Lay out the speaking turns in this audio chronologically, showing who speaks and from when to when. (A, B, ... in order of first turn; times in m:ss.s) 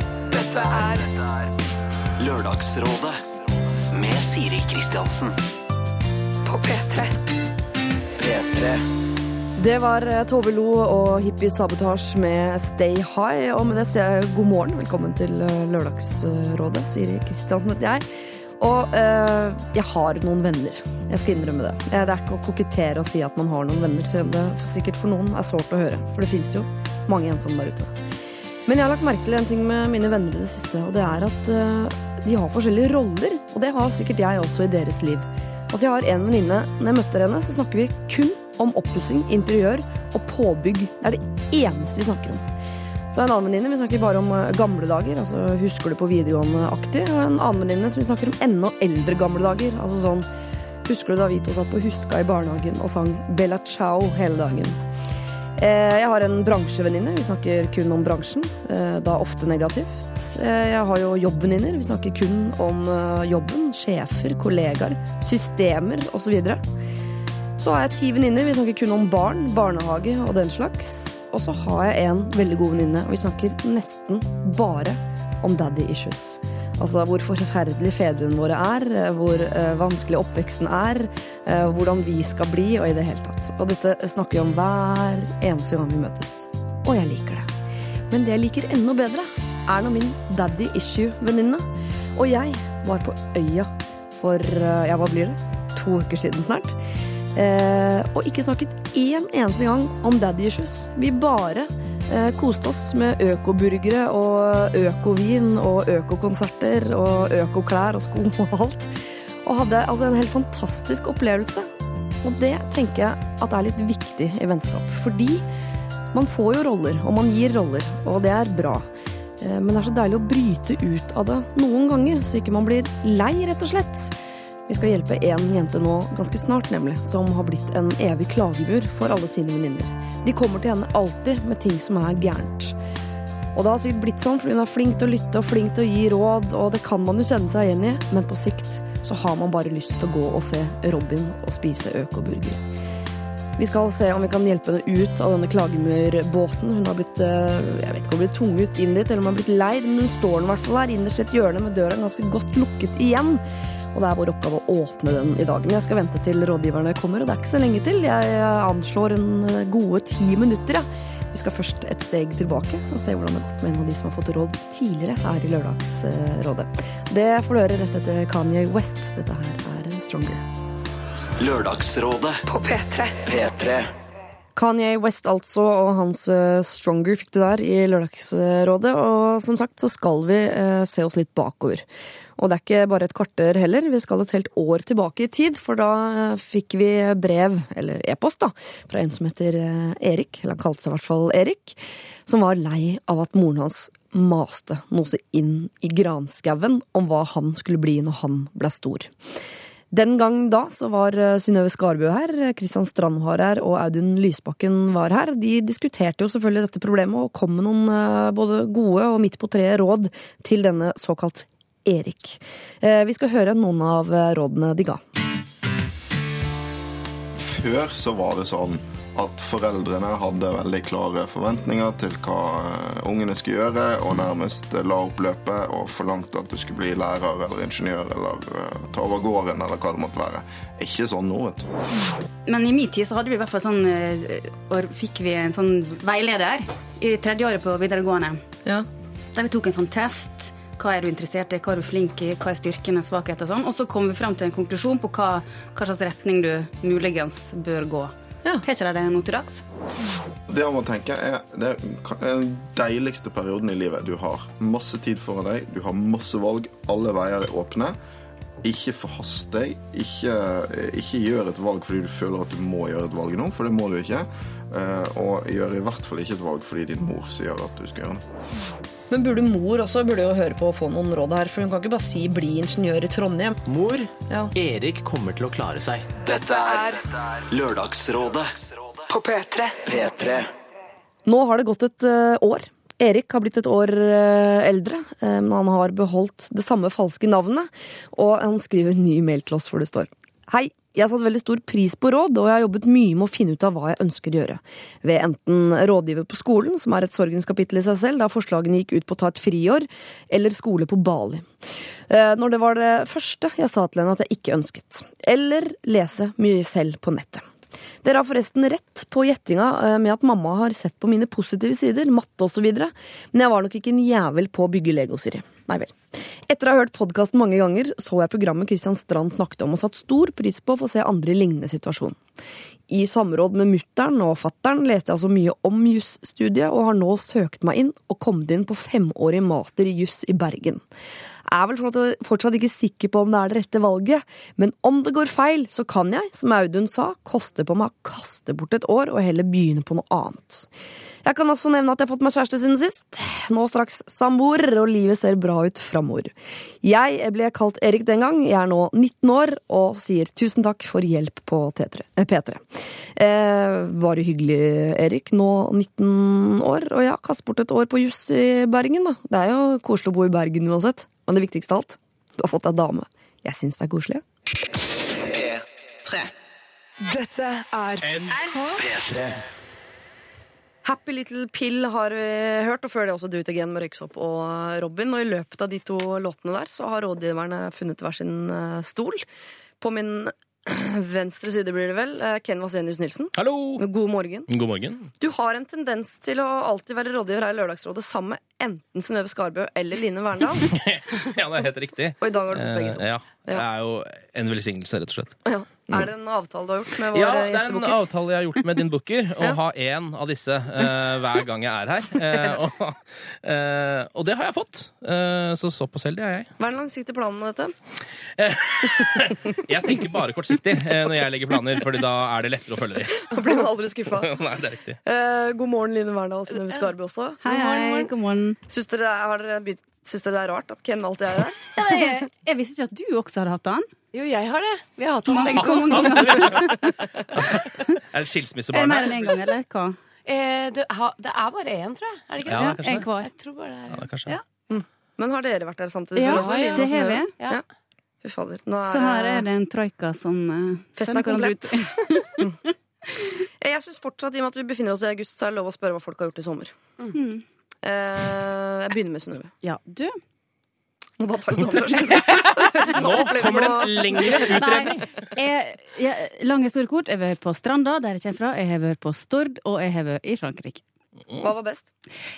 0:00.3-0:01.1 A
0:02.2-0:03.2 B
0:04.0-0:05.3 B
0:06.4-0:07.2 A
0:08.2-0:08.8 B
0:09.6-0:18.1 C
0:18.6-0:28.0 C
0:28.7-0:42.4 C
0:43.1-0:50.3 C
0:50.8-0:54.8 C
0:55.6-1:06.6 C
1:07.6-1:27.5 C
1:28.1-1:36.8 C
1:37.3-1:48.9 C
1:49.4-1:51.7 C
1:52.2-1:55.4 C
1:56.1-1:58.9 C
1:59.4-2:04.1 C
2:04.7-2:12.7 C
2:13.5-2:22.6 C
2:23.6-2:33.4 C
2:33.9-2:50.4 C
2:51.4-2:52.4 B
2:52.5-2:53.2 A
2:53.2-2:53.9 B
2:54.6-3:01.8 C
3:02.4-3:19.1 C
3:19.9-3:35.0 C
3:37.4-3:51.7 D
3:52.5-3:58.4 E
3:59.3-4:09.6 E
4:10.5-4:18.0 D
4:18.6-4:28.2 D
4:29.1-4:33.6 C
4:33.7-4:36.1 F
4:36.2-4:38.5 B
4:36.3-4:37.0 A
4:39.1-4:39.8 A
4:39.8-4:40.5 B
4:41.2-5:07.5 C
5:08.0-5:22.2 C
5:22.9-5:30.8 C
5:31.5-5:40.7 C
5:41.2-6:04.2 C
6:07.0-6:08.9 A
6:08.0-6:08.4 F
6:08.8-6:09.4 B
6:10.8-6:19.2 C
6:19.8-6:24.5 C
6:23.4-6:23.9 G
6:24.5-6:25.1 G
6:25.2-6:30.7 C
6:30.6-6:35.4 G
6:32.2-6:33.7 C
6:35.5-6:38.0 C
6:37.1-6:46.5 G
6:46.6-6:47.8 C
6:48.3-6:53.4 G
6:53.3-6:54.4 C
6:54.1-6:55.0 G
6:55.0-6:57.4 C
6:57.4-6:58.1 H
6:57.4-6:58.6 E
6:58.7-7:01.7 C
7:01.8-7:03.9 E
7:04.1-7:06.8 H
7:05.3-7:08.0 E
7:05.5-7:09.4 G
7:08.7-7:10.0 E
7:10.2-7:14.0 H
7:12.5-7:13.1 G
7:12.5-7:13.3 E
7:13.9-7:14.4 G
7:14.7-7:17.6 C
7:16.2-7:17.3 E
7:16.2-7:17.6 H
7:18.2-7:19.5 C
7:18.8-7:22.5 E
7:21.0-7:22.6 C
7:23.6-7:26.7 C
7:27.1-7:27.4 E
7:27.8-7:29.5 C
7:29.6-7:30.2 E
7:31.2-7:34.7 C
7:32.8-7:35.0 G
7:34.2-7:40.8 E
7:41.4-7:41.9 C